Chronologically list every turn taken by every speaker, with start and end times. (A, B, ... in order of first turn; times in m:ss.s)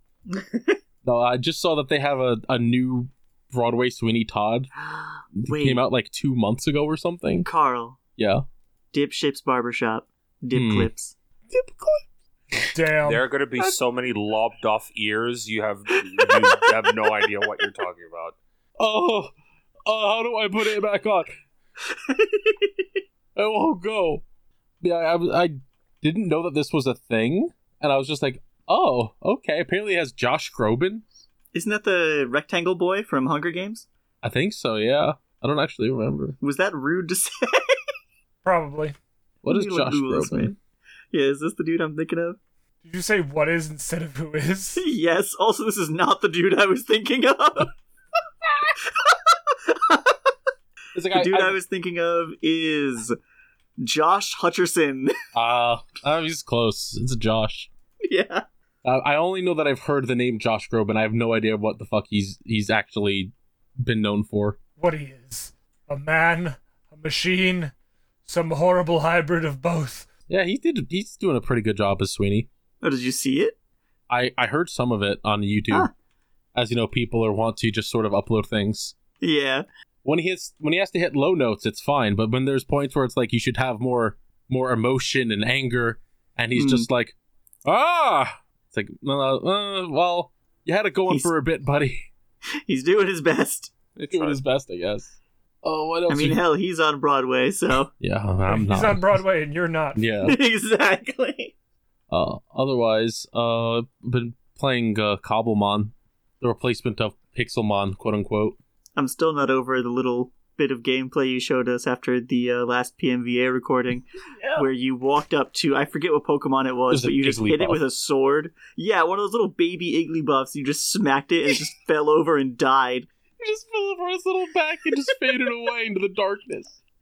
0:00.3-0:00.8 A
0:01.0-0:04.7 B
0:04.8-0:05.8 A
0:05.4-0:07.5 B
0:07.4-0:08.0 A
0:08.2-0:08.4 B
0:08.9-0:11.2 A
0:10.5-0:10.9 B
0:11.5-0:12.8 B
0:12.7-0:13.2 C
0:13.1-0:18.4 D
0:18.8-0:19.3 B
0:19.8-0:21.3 B
0:21.9-0:22.9 A
0:23.4-0:24.2 B
0:24.8-0:31.1 B
0:31.5-0:33.9 A
0:34.2-0:36.4 B
0:36.4-0:37.8 A
0:38.4-0:39.0 C
0:39.4-0:40.5 B
0:39.5-0:40.6 A
0:41.1-0:42.4 A
0:42.8-0:44.8 C
0:44.8-0:47.7 A
0:48.8-0:50.3 A
0:50.9-0:51.6 B
0:51.1-0:53.2 A
0:53.8-0:55.1 A
0:55.3-0:57.7 B
0:58.0-0:58.4 A
0:58.8-1:04.6 B
1:04.8-1:07.7 C
1:08.3-1:10.1 C
1:10.3-1:12.5 B
1:12.8-1:13.6 A
1:14.1-1:15.9 B
1:16.6-1:18.9 B
1:19.2-1:19.7 A
1:20.0-1:32.1 B
1:26.6-1:26.9 A
1:32.7-1:33.7 A
1:34.0-1:34.4 D
1:34.1-1:36.4 B
1:36.1-1:37.9 A
1:37.9-1:39.2 B
1:38.5-1:40.0 C
1:40.0-1:40.4 B
1:40.2-1:41.5 A
1:42.1-1:48.6 B
1:49.0-2:03.1 A
1:54.3-1:54.7 B
1:56.9-1:57.8 B
2:03.4-2:06.8 B